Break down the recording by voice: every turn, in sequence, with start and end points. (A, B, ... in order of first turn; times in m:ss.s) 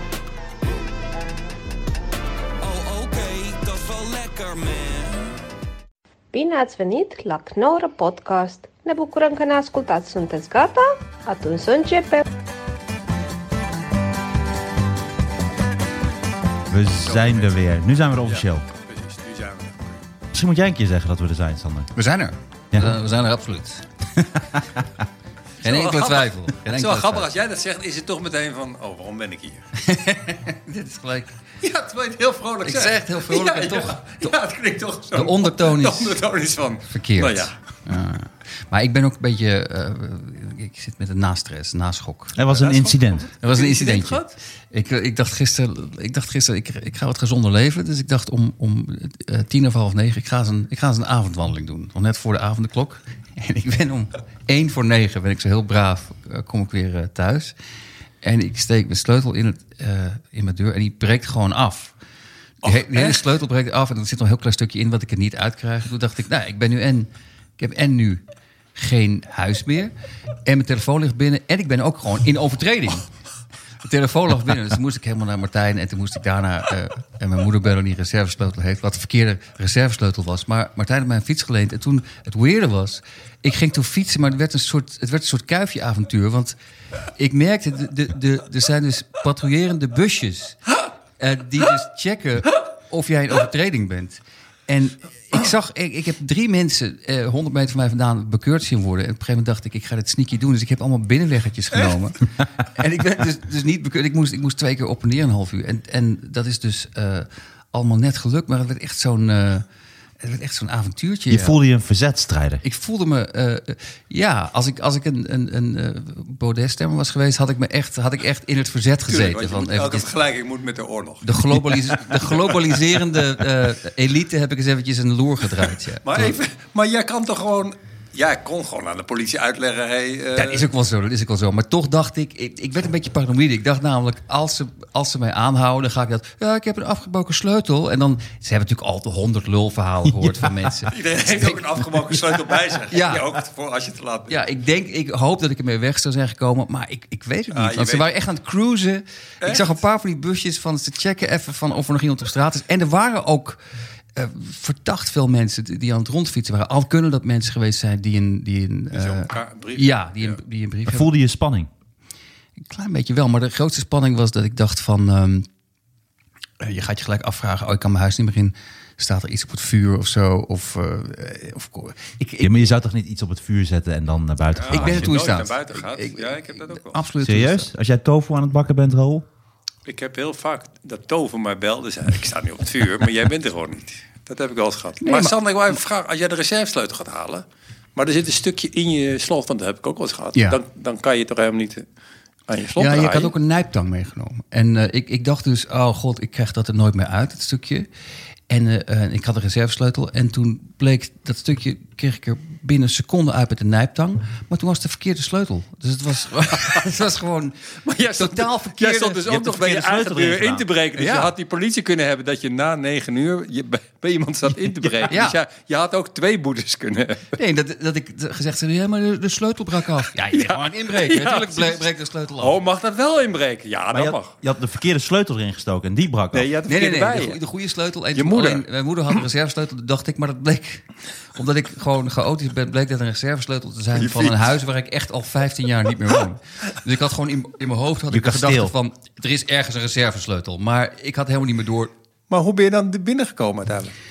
0:02.6-0:05.4 A
0:06.3-0:12.2 B
0:16.7-0:18.6 C
0:17.0-0:17.6 D
0:18.2-0:20.0 D
0:20.3-0:21.9 C
0:21.9-0:23.8 E
0:24.4-0:24.6 C
0:25.6-0:27.3 E
0:25.6-0:29.6 D
0:29.8-0:31.3 E
0:31.6-0:37.5 D
0:32.6-0:34.3 E
0:35.1-0:36.2 E
0:36.9-0:42.4 E
0:42.3-0:43.3 C
0:42.4-0:44.4 D
0:43.4-0:57.5 E
0:58.2-1:01.9 E
1:02.6-1:08.2 E
1:08.8-1:09.9 E
1:10.4-1:13.1 E
1:13.8-1:26.5 E
1:27.2-1:30.6 E
1:31.2-1:49.6 E
1:50.2-1:51.6 E
1:51.3-1:52.6 C
1:52.6-2:00.1 E
1:59.1-2:02.8 D
2:01.2-2:06.4 E
2:06.0-2:10.7 D
2:10.4-2:21.8 E
2:20.9-2:24.4 D
2:22.9-2:23.3 E
2:24.3-2:33.6 E
2:27.5-2:28.1 D
2:29.4-2:29.8 D
2:34.1-2:41.1 E
2:38.9-2:40.4 D
2:40.9-2:41.7 C
2:42.6-2:45.5 E
2:46.6-2:52.5 E
2:52.4-2:55.2 C
2:54.5-2:57.0 D
2:54.7-2:57.7 E
2:57.2-2:59.2 C
2:59.8-3:11.9 D
3:05.0-3:05.4 E
3:10.3-3:10.6 E
3:12.5-3:13.3 D
3:12.8-3:17.9 E
3:18.5-3:29.2 E
3:26.5-3:26.8 D
3:27.8-3:37.3 D
3:29.2-3:30.6 C
3:31.0-3:31.3 E
3:35.1-3:35.4 E
3:37.4-3:42.6 E
3:40.3-3:41.9 D
3:42.4-3:44.4 D
3:43.9-3:46.5 C
3:46.3-3:47.4 D
3:46.7-4:01.9 E
3:48.1-3:48.6 D
3:53.9-3:54.4 D
3:58.1-3:58.7 C
4:02.3-4:03.9 D